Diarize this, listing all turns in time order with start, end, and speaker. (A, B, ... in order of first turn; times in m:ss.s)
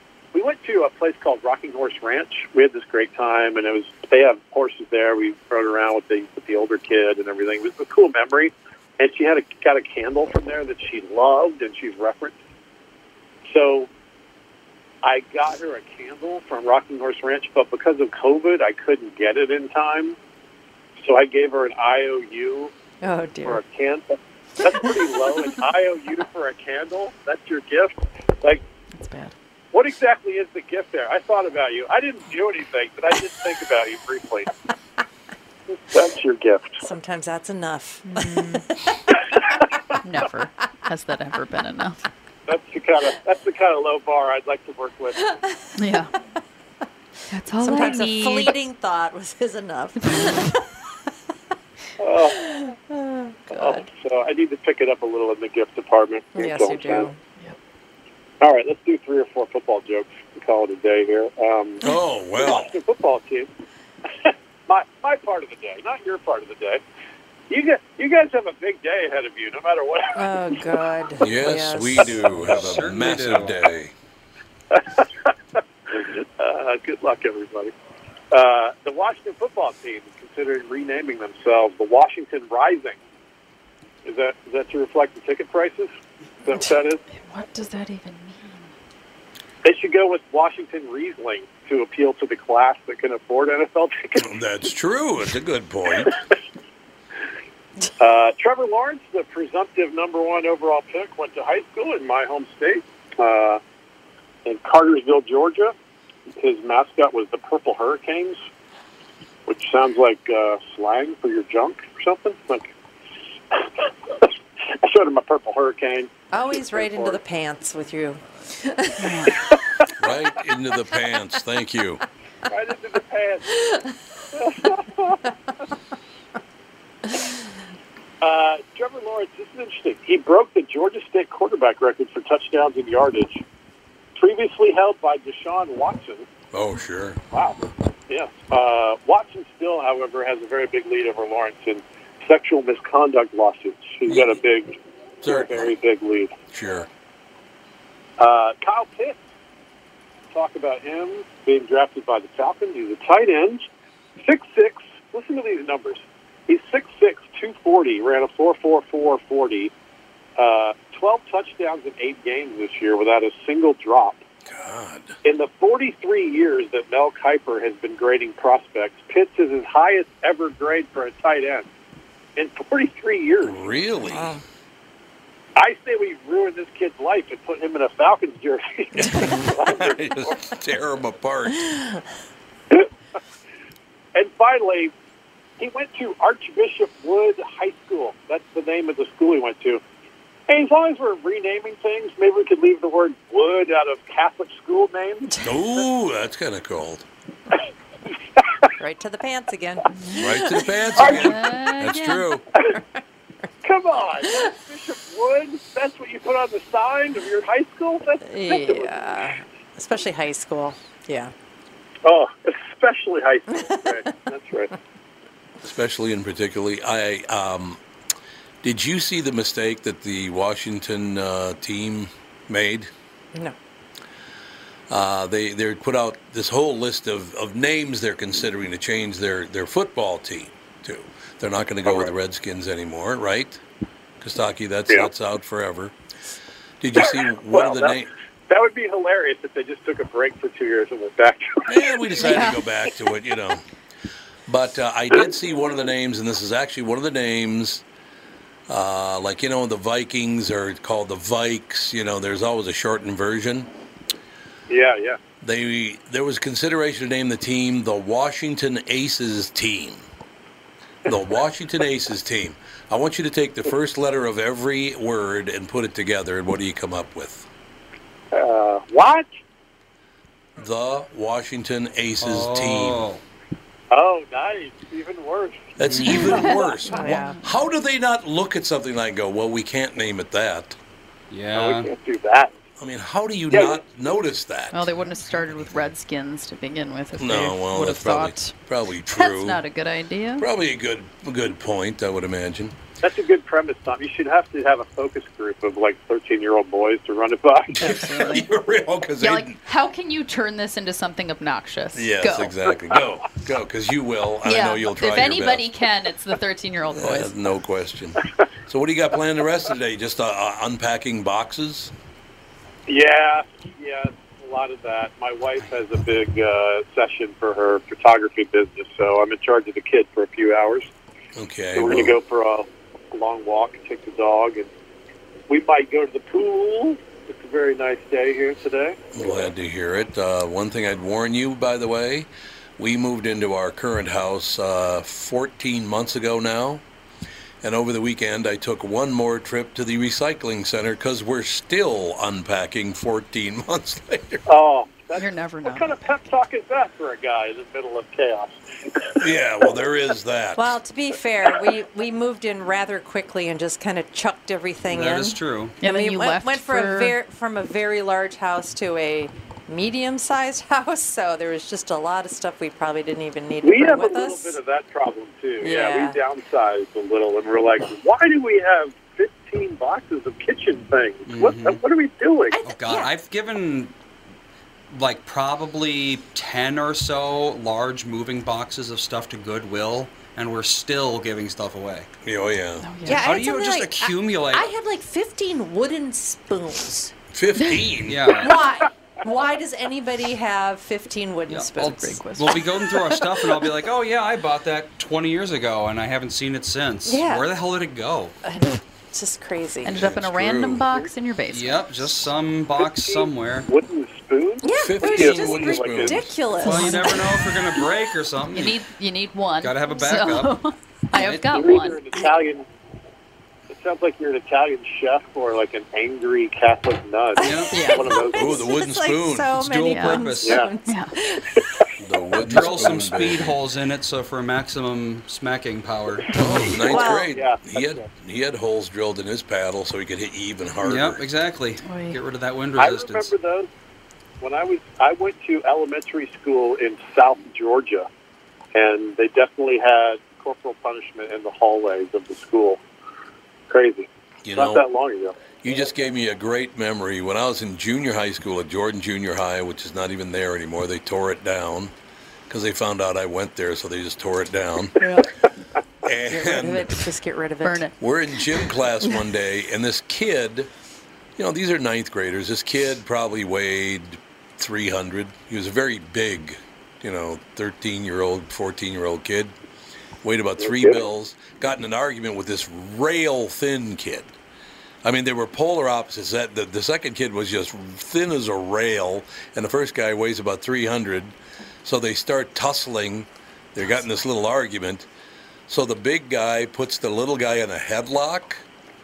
0:00.3-0:12.4 A
0:13.4-0:13.9 A
0:15.0-0:20.2 A
0:21.0-0:22.7 A
0:23.0-0:23.6 B
0:23.4-0:28.6 A
0:24.7-0:25.6 B
0:29.0-0:29.3 B
0:29.7-0:34.5 A
0:35.9-0:36.8 A
0:36.8-0:39.6 B
0:38.1-0:38.5 C
0:39.1-0:39.6 A
0:40.0-0:42.0 C
0:42.5-0:45.3 A
0:45.8-0:46.1 C
0:47.3-0:48.6 C
0:47.6-0:50.7 B
0:52.0-0:52.4 A
0:52.2-0:53.9 B
0:53.5-0:57.1 A
0:56.3-0:57.2 B
0:58.4-1:01.8 A
1:01.8-1:02.7 D
1:02.4-1:03.5 A
1:04.2-1:06.8 A
1:07.5-1:10.4 A
1:10.2-1:12.3 B
1:11.2-1:13.9 D
1:12.4-1:13.6 E
1:14.7-1:15.3 A
1:15.9-1:17.7 A
1:18.3-1:23.0 A
1:24.0-1:25.9 A
1:26.5-1:27.0 A
1:27.1-1:28.7 C
1:29.6-1:34.3 A
1:34.2-1:36.2 D
1:38.0-1:43.6 A
1:44.4-1:45.7 A
1:46.4-1:48.4 A
1:49.5-1:52.7 A
1:53.5-1:54.3 A
1:54.8-1:57.2 A
1:56.3-1:59.3 B
1:59.0-1:59.3 C
2:00.0-2:02.0 D
2:02.5-2:03.8 A
2:04.3-2:05.2 A
2:08.2-2:13.4 A
2:14.2-2:16.3 A
2:16.5-2:17.2 D
2:17.3-2:17.6 A
2:18.1-2:24.7 A
2:24.1-2:24.4 D
2:25.2-2:25.7 D
2:25.2-2:26.3 A
2:26.5-2:26.9 D
2:28.2-2:29.2 A
2:30.3-2:33.6 A
2:34.2-2:39.7 A
2:40.4-2:44.2 A
2:44.5-2:45.2 D
2:45.2-2:51.7 A
2:52.4-2:53.7 A
2:53.4-2:54.4 D
2:54.0-2:54.4 B
2:55.6-3:00.3 A
2:59.0-3:01.9 D
3:04.1-3:04.9 A
3:05.6-3:09.8 A
3:10.5-3:15.4 A
3:15.4-3:17.1 D
3:18.8-3:21.2 B
3:20.2-3:22.4 D
3:21.0-3:21.3 A
3:21.0-3:22.3 C
3:23.6-3:29.4 A
3:28.2-3:31.3 B
3:32.0-3:34.7 A
3:33.5-3:34.2 B
3:35.6-3:37.8 D
3:38.6-3:42.9 D
3:44.9-3:53.6 D
3:51.8-3:52.1 A
3:54.2-3:56.0 D
3:56.8-3:58.1 D
3:57.0-4:02.2 A
4:01.7-4:03.6 D
4:02.2-4:02.6 C
4:04.5-4:07.8 D
4:08.7-4:13.7 D
4:14.7-4:15.2 A
4:15.4-4:20.0 D
4:21.1-4:27.5 D
4:28.3-4:29.4 A
4:30.6-4:33.0 D
4:32.2-4:33.2 E
4:33.9-4:35.7 A
4:35.8-4:40.8 D
4:35.8-4:36.8 E
4:36.3-4:37.4 C
4:36.4-4:37.4 B
4:41.3-4:41.9 E
4:41.5-4:42.5 A
4:42.8-4:44.9 D
4:43.5-4:43.8 A
4:44.7-4:48.6 C
4:47.2-4:49.6 D
4:49.1-4:50.5 C
4:50.4-4:52.8 D
4:53.0-4:57.9 A
4:57.8-4:59.6 D
4:57.8-4:58.5 C
4:59.2-5:02.6 C
5:02.0-5:05.7 D
5:04.4-5:07.3 C
5:07.0-5:11.9 D
5:12.9-5:20.9 A
5:21.4-5:22.2 D
5:21.8-5:24.7 A
5:25.5-5:29.3 A
5:29.1-5:36.8 D
5:37.6-5:44.4 D
5:44.5-5:49.0 A
5:45.2-5:46.2 C
5:49.2-5:50.7 D
5:50.6-6:04.6 B
5:54.9-5:55.8 E
5:55.8-5:57.2 C
6:03.6-6:12.6 A
6:05.6-6:06.2 B
6:11.3-6:11.8 E
6:12.5-6:13.1 B
6:12.6-6:13.9 E
6:14.9-6:22.1 E
6:22.2-6:22.9 D
6:22.8-6:23.2 C
6:23.0-6:27.1 B
6:23.1-6:24.7 E
6:27.3-6:28.4 D
6:28.1-6:28.5 E
6:28.3-6:33.7 B
6:31.5-6:38.4 E
6:31.8-6:32.6 C
6:37.0-6:37.5 B
6:38.4-6:40.0 B
6:39.8-6:42.2 C
6:40.0-6:40.8 D
6:41.5-6:43.7 E
6:42.8-6:46.3 A
6:44.6-6:47.9 B
6:44.8-6:46.4 D
6:46.6-6:48.8 E
6:46.7-6:47.2 C
6:48.5-6:52.0 C
6:49.6-6:50.6 E
6:51.2-6:51.7 E
6:51.5-6:52.7 A
6:53.7-6:58.7 A
6:57.4-7:01.8 B
6:57.4-6:57.8 E
6:57.7-6:58.1 C
6:58.4-6:59.6 D
6:59.6-7:00.6 E
6:59.9-7:00.3 C
7:00.5-7:00.7 A
7:00.8-7:01.2 C
7:02.0-7:03.6 D
7:02.4-7:06.3 E
7:02.5-7:03.0 B
7:06.4-7:11.2 D
7:06.8-7:07.4 B
7:06.9-7:08.0 A
7:10.8-7:13.3 E
7:11.8-7:12.2 C
7:12.8-7:13.7 A
7:14.4-7:18.1 A
7:18.7-7:22.8 A
7:23.7-7:25.8 A
7:24.4-7:24.8 D
7:25.6-7:31.9 D
7:32.5-7:35.1 D
7:35.0-7:35.3 C
7:36.0-7:37.0 D
7:36.3-7:37.9 B
7:37.6-7:37.9 C
7:38.0-7:40.7 D
7:41.4-7:49.5 D
7:50.2-7:54.4 D
7:50.6-7:51.1 A
7:55.0-8:05.1 D
8:05.7-8:08.6 D